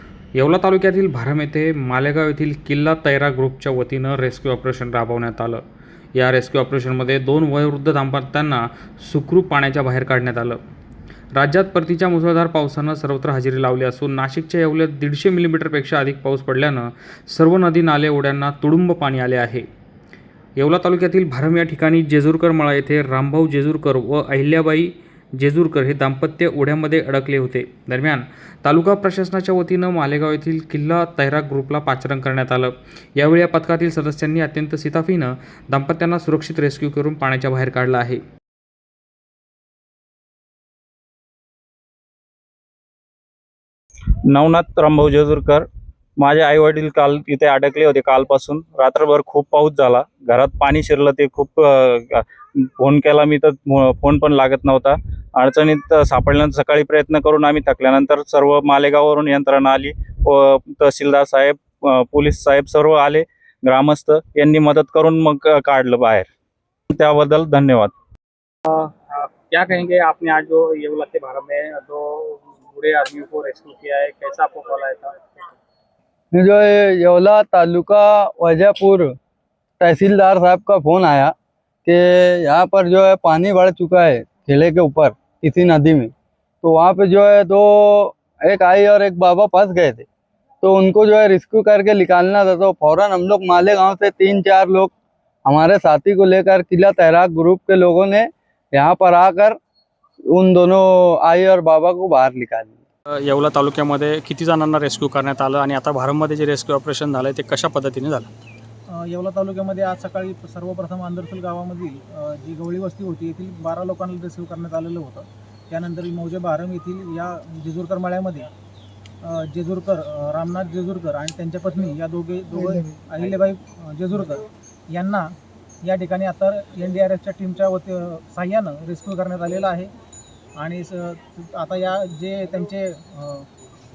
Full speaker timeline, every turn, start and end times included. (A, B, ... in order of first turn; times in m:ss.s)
0:00.4-0:05.6 A
0:06.1-0:10.6 A
0:11.4-0:19.7 A
0:20.6-0:38.2 A
0:44.3-0:45.7 B
0:46.2-1:06.3 B
1:06.9-1:07.9 B
1:08.6-1:15.5 C
1:16.3-1:19.1 D
1:19.8-1:21.3 D
1:21.8-1:30.1 D
1:30.6-1:34.9 D
1:35.4-1:39.6 D
1:40.3-1:42.8 D
1:43.2-1:48.3 C
1:48.9-1:58.5 E
1:59.2-2:09.9 E
2:10.6-2:13.5 E